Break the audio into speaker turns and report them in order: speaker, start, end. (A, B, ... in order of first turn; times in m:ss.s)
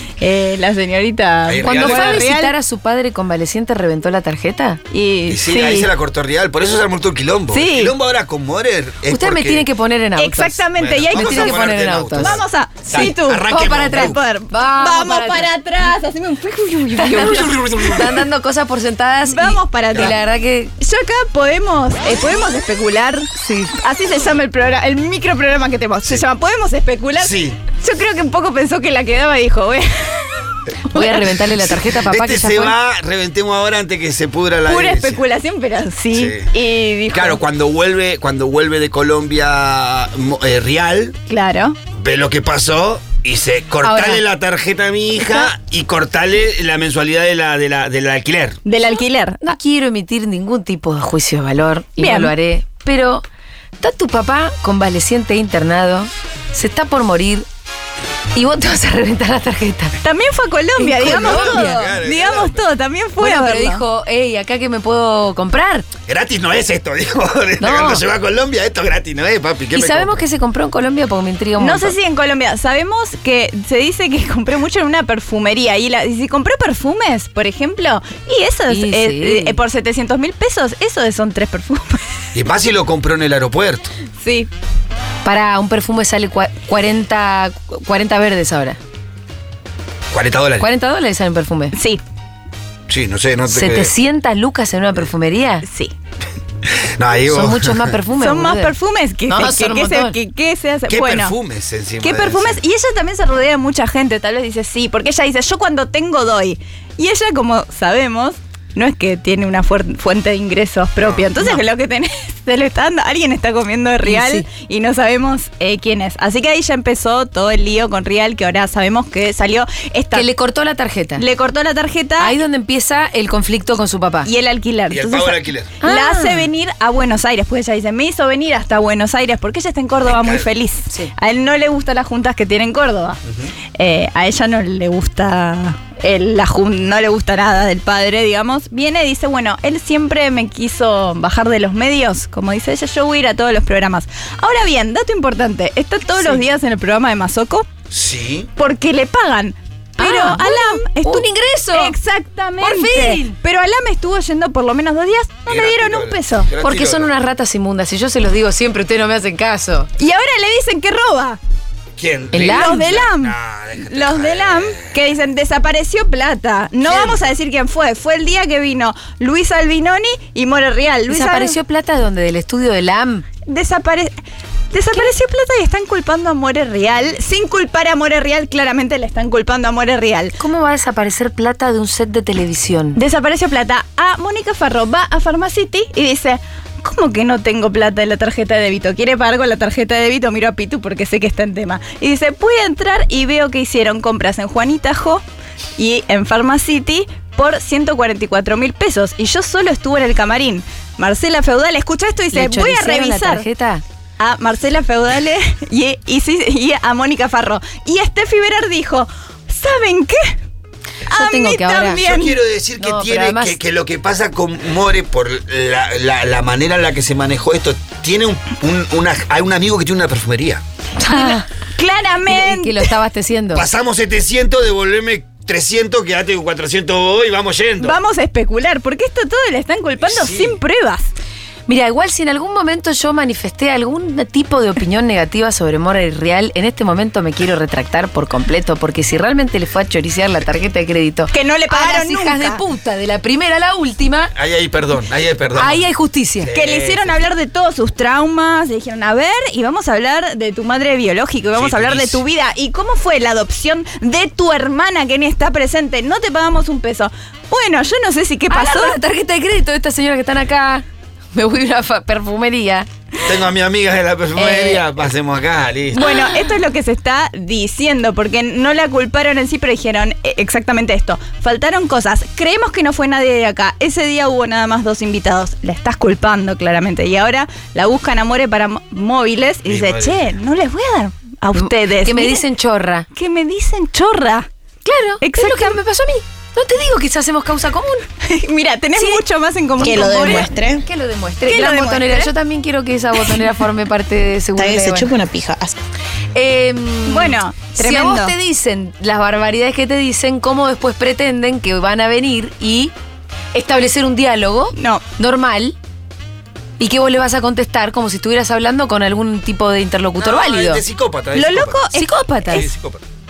0:00.2-0:02.5 A
0:01.5-0:02.2 B
0:01.6-0:04.8 C
0:04.9-0:05.9 A
0:05.3-0:09.6 B
0:07.5-0:07.9 A
0:09.1-0:10.6 C
0:10.2-0:11.6 A
0:10.8-0:14.2 B
0:11.1-0:12.4 C
0:12.1-0:17.8 A
0:13.5-0:15.5 C
0:17.0-0:20.7 C
0:17.2-0:18.2 B
0:19.3-0:20.2 A
0:20.8-0:23.3 A
0:23.4-0:23.8 C
0:23.8-0:31.2 A
0:27.2-0:27.6 B
0:30.9-0:32.7 C
0:31.4-0:35.2 B
0:34.6-0:37.4 A
0:36.1-0:36.5 B
0:37.1-0:41.2 B
0:41.3-0:41.8 A
0:41.9-0:48.6 B
0:43.8-0:44.2 C
0:45.2-0:45.5 A
0:48.6-0:49.4 A
0:49.4-0:53.2 C
0:52.0-0:52.3 A
0:53.8-0:57.5 C
0:58.3-0:59.9 C
1:00.0-1:03.8 A
1:00.8-1:01.8 C
1:01.0-1:02.6 B
1:03.2-1:05.8 C
1:06.1-1:10.2 B
1:07.6-1:08.0 C
1:09.7-1:11.9 C
1:11.6-1:22.0 A
1:18.7-1:19.6 C
1:22.3-1:23.9 B
1:24.2-1:24.5 A
1:25.2-1:28.8 C
1:30.1-1:30.7 B
1:30.6-1:31.7 C
1:31.7-1:32.0 A
1:32.9-1:33.9 B
1:33.5-1:35.6 C
1:35.6-1:35.9 A
1:36.7-1:37.9 B
1:37.3-1:38.7 C
1:38.2-1:41.4 A
1:39.3-1:40.1 C
1:40.9-1:42.6 B
1:42.0-2:00.3 A
1:51.0-1:51.3 B
1:54.0-1:54.4 C
2:00.1-2:01.2 C
2:01.2-2:02.4 A
2:02.2-2:04.3 C
2:04.2-2:13.2 A
2:04.9-2:05.7 B
2:05.8-2:06.5 C
2:10.2-2:10.4 B
2:13.8-2:27.7 A
2:27.9-2:28.5 B
2:28.6-2:36.5 A
2:30.0-2:31.9 C
2:32.6-2:33.3 C
2:35.5-2:37.1 B
2:36.6-2:39.9 C
2:40.0-2:41.4 A
2:42.0-2:45.0 B
2:42.3-2:42.8 C
2:42.5-2:51.6 A
2:46.8-2:47.2 B
2:51.1-2:53.2 C
2:53.4-2:54.1 A
2:54.7-3:00.4 A
3:00.4-3:03.0 C
3:02.9-3:15.2 A
3:15.8-3:23.4 A
3:22.3-3:23.8 C
3:24.2-3:30.4 A
3:31.1-3:32.4 A
3:31.1-3:32.0 C
3:31.9-3:40.6 B
3:32.8-3:33.6 C
3:41.0-3:41.4 C
3:41.1-3:42.9 A
3:42.3-3:43.6 C
3:43.5-3:48.0 B
3:47.8-3:51.1 A
3:50.0-3:50.6 B
3:51.7-4:04.3 C
4:01.3-4:02.6 A
4:04.3-4:07.1 B
4:05.6-4:06.5 C
4:06.5-4:19.0 A
4:11.5-4:12.2 B
4:18.5-4:22.9 C
4:23.2-4:26.0 B
4:24.4-4:24.9 A
4:25.9-4:42.4 A
4:39.6-4:40.2 B
4:41.5-4:43.1 C
4:43.1-4:44.4 A
4:44.8-4:48.0 C
4:45.2-4:45.8 A
4:48.2-4:50.5 A
4:48.9-4:49.2 C
4:49.8-4:50.8 D
4:49.8-4:55.1 C
4:51.4-4:52.3 A
4:54.6-4:55.8 D
4:56.3-5:02.9 C
4:57.1-4:58.3 A
5:03.5-5:05.8 C
5:04.8-5:05.0 A
5:06.8-5:10.8 C
5:10.2-5:11.8 B
5:11.3-5:12.7 A
5:11.9-5:12.7 C
5:12.5-5:13.0 B